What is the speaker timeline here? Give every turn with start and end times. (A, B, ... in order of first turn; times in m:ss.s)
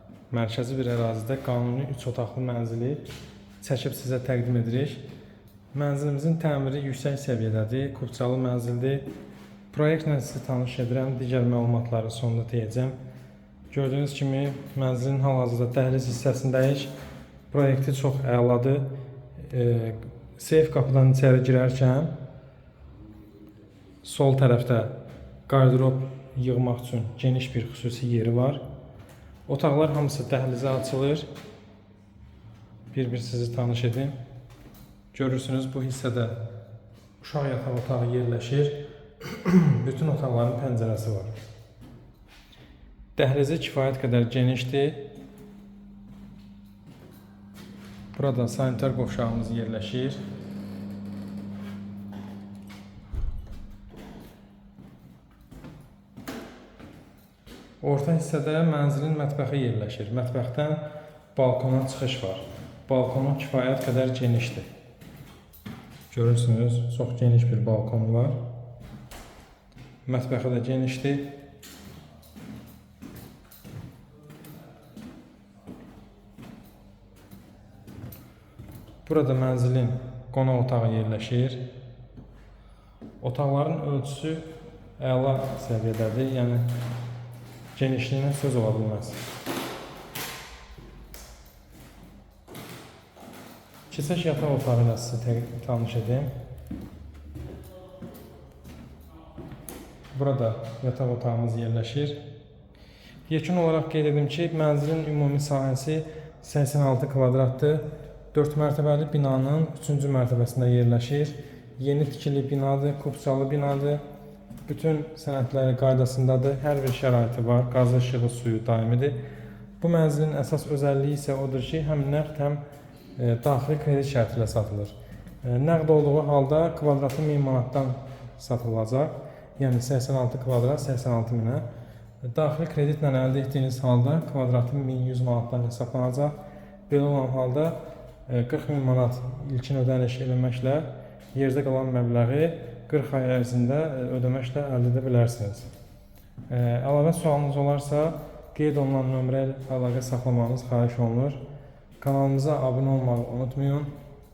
0:00.3-0:03.1 A
0:03.6-0:05.0 A
0:05.7-0:09.0 A
0:09.7-0:13.0 A
0:13.7-0:16.9 A
0:17.5-0:22.2 A
0:24.0-0:28.6 A
0:29.5-0:31.3 A
0:32.9-0:34.2 A
0:35.1-0:36.5 A
0:37.2-0:41.4 A
0:43.2-0:45.0 A
0:48.2-0:50.2 A
0:57.8-1:04.7 A
1:06.1-1:08.4 A
1:10.1-1:11.4 A
1:19.0-1:21.7 A
1:23.2-1:26.8 A
1:27.7-1:29.2 A
1:33.9-1:36.3 A
1:40.1-1:42.2 A
1:43.3-1:54.0 A
1:54.7-1:59.2 A
1:59.8-2:02.6 A
2:03.2-2:11.7 A
2:12.2-2:16.4 A
2:16.9-2:25.7 A
2:26.5-2:31.4 A
2:32.0-2:33.9 A